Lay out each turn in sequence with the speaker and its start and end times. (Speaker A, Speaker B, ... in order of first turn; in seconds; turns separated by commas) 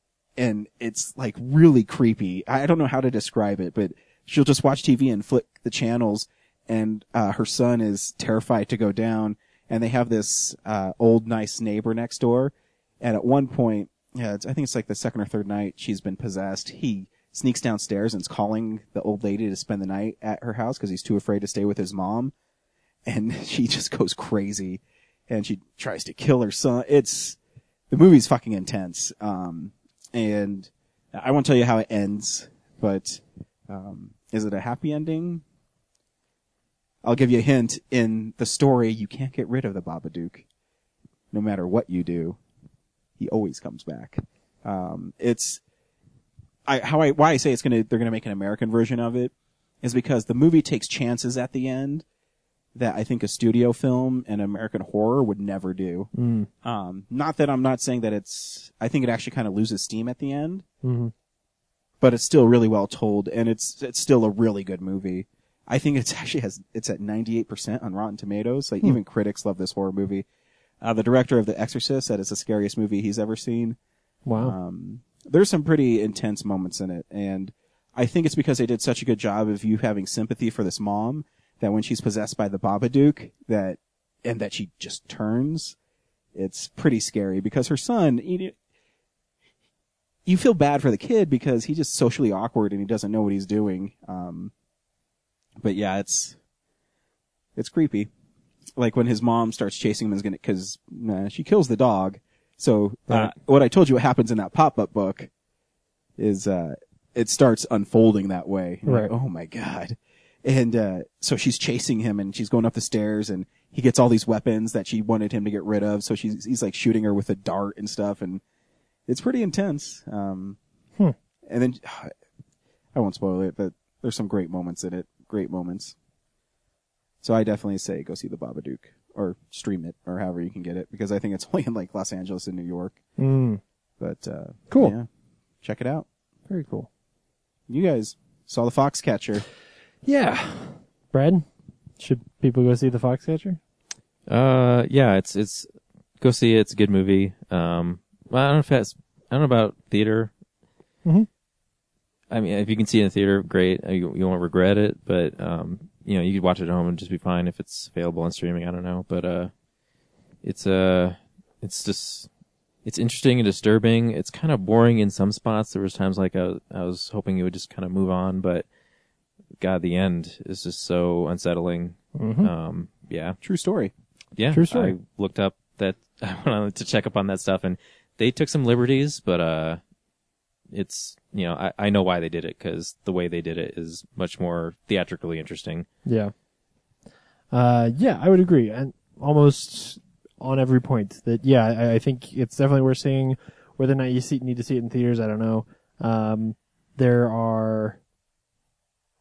Speaker A: 0.4-22.3, Speaker A: 23.1-27.4, Speaker A: 27.9-35.4, Speaker A: 37.0-40.5, Speaker A: 41.3-42.4, Speaker A: 43.2-45.6, Speaker A: 46.7-52.0, Speaker A: 52.8-56.1, Speaker B: 56.1-56.5, Speaker A: 56.6-60.6, Speaker B: 60.8-61.1, Speaker A: 62.0-70.3, Speaker A: 70.8-73.8, Speaker B: 74.3-74.5, Speaker A: 74.4-85.8, Speaker A: 86.3-88.5, Speaker A: 90.3-94.5, Speaker A: 95.6-96.4, Speaker A: 97.6-98.1, Speaker A: 98.8-105.3, Speaker B: 103.1-103.3, Speaker A: 106.2-118.4, Speaker B: 108.9-109.1, Speaker A: 119.1-120.6, Speaker A: 121.5-122.1, Speaker A: 123.0-126.0, Speaker A: 127.2-133.0, Speaker B: 133.2-133.6, Speaker A: 134.0-135.1, Speaker B: 134.7-134.9, Speaker A: 135.6-136.1, Speaker B: 136.5-136.9, Speaker A: 137.7-139.4, Speaker B: 140.1-141.4, Speaker B: 142.0-143.6, Speaker C: 144.3-145.7, Speaker C: 146.2-150.3, Speaker C: 152.3-159.5, Speaker C: 160.4-162.3, Speaker C: 162.8-168.7, Speaker C: 169.6-173.4, Speaker B: 172.2-172.5, Speaker A: 173.4-173.9, Speaker C: 174.4-179.8, Speaker B: 174.5-174.9, Speaker C: 180.7-185.9, Speaker B: 186.1-186.3, Speaker B: 187.5-198.0